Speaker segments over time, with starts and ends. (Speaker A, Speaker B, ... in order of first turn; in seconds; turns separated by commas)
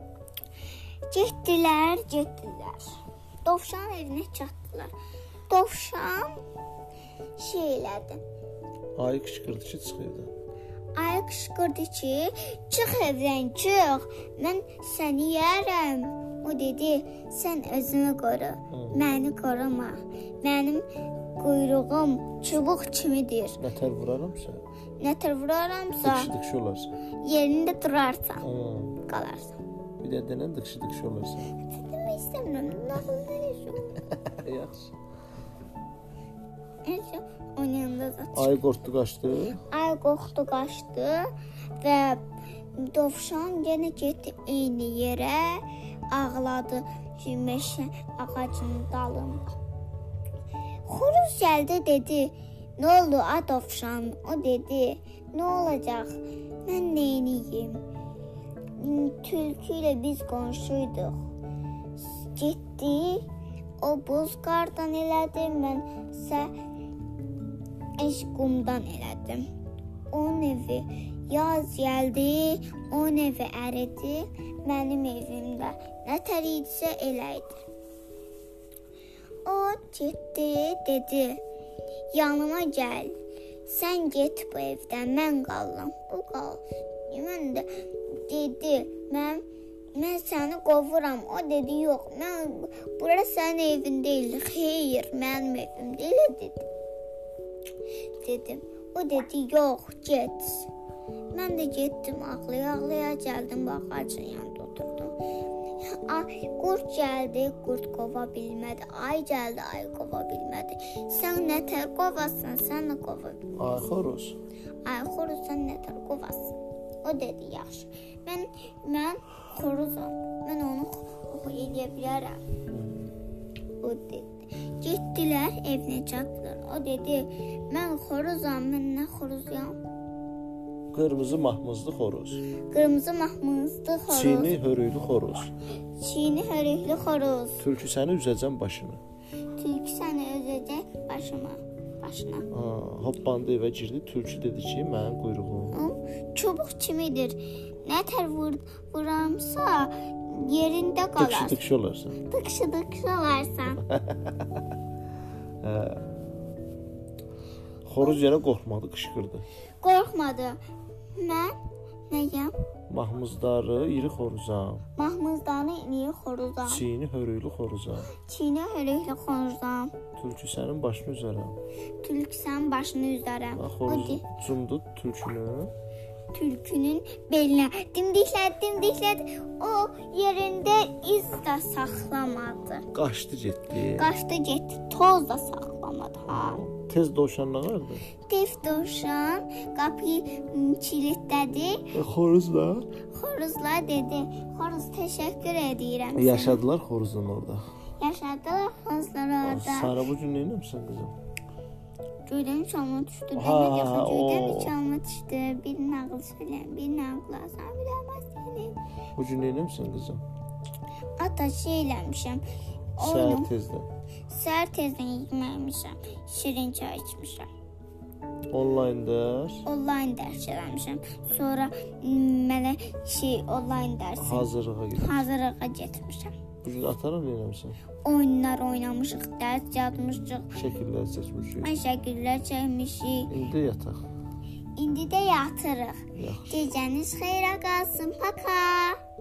Speaker A: 1.1-4.9, Speaker A: 5.5-6.4, Speaker A: 7.4-8.2, Speaker B: 9.0-10.3, Speaker A: 11.0-20.9, Speaker B: 18.7-19.0, Speaker A: 21.4-23.6, Speaker B: 23.6-24.6, Speaker A: 25.0-26.3, Speaker B: 26.0-26.9, Speaker A: 27.2-28.4, Speaker B: 28.4-29.0, Speaker A: 29.1-29.6, Speaker B: 30.0-31.5, Speaker A: 31.6-34.0, Speaker B: 34.3-35.0, Speaker A: 36.9-38.5, Speaker B: 38.4-39.6, Speaker A: 39.7-42.2, Speaker A: 42.8-49.5, Speaker A: 50.9-57.8, Speaker A: 58.8-61.2, Speaker A: 62.0-63.2, Speaker A: 63.8-66.5, Speaker A: 68.0-69.5, Speaker A: 70.1-77.7, Speaker A: 79.5-81.4, Speaker A: 82.1-83.2, Speaker A: 83.7-96.7, Speaker A: 98.2-100.7, Speaker A: 101.3-105.2, Speaker A: 105.8-113.6, Speaker B: 113.6-114.4, Speaker A: 114.8-122.4, Speaker B: 122.7-123.1, Speaker A: 123.8-129.8, Speaker B: 130.9-132.4, Speaker A: 132.7-134.5, Speaker B: 134.1-135.5, Speaker A: 136.0-137.6, Speaker B: 137.6-139.0, Speaker A: 139.6-142.5, Speaker B: 142.5-145.8, Speaker A: 145.7-151.6, Speaker B: 151.2-152.2, Speaker A: 152.2-153.8, Speaker B: 153.9-154.5, Speaker B: 155.6-156.0, Speaker B: 157.8-159.4, Speaker A: 159.8-160.6, Speaker A: 161.2-161.6, Speaker A: 162.1-162.6, Speaker B: 162.9-164.8, Speaker A: 165.0-166.8, Speaker B: 166.7-168.1, Speaker A: 168.2-169.9, Speaker B: 170.2-171.6, Speaker A: 172.0-174.2, Speaker B: 173.6-175.7, Speaker A: 176.3-182.9, Speaker B: 182.9-184.1, Speaker A: 183.9-186.6, Speaker B: 186.3-188.1, Speaker A: 188.3-191.9, Speaker B: 191.9-192.9, Speaker A: 193.1-196.6, Speaker B: 196.2-197.6, Speaker A: 198.0-199.9, Speaker B: 199.4-201.1, Speaker A: 202.3-208.8, Speaker B: 203.3-204.8, Speaker B: 209.2-210.2, Speaker A: 211.2-212.4, Speaker A: 213.0-213.5, Speaker B: 213.0-213.9, Speaker A: 214.3-217.5, Speaker B: 218.5-219.7, Speaker A: 219.7-226.3, Speaker B: 224.2-225.3, Speaker B: 226.6-227.8, Speaker A: 228.1-230.6, Speaker B: 230.6-231.7, Speaker A: 231.6-233.3, Speaker B: 233.3-234.1, Speaker A: 234.8-239.0, Speaker B: 236.2-236.7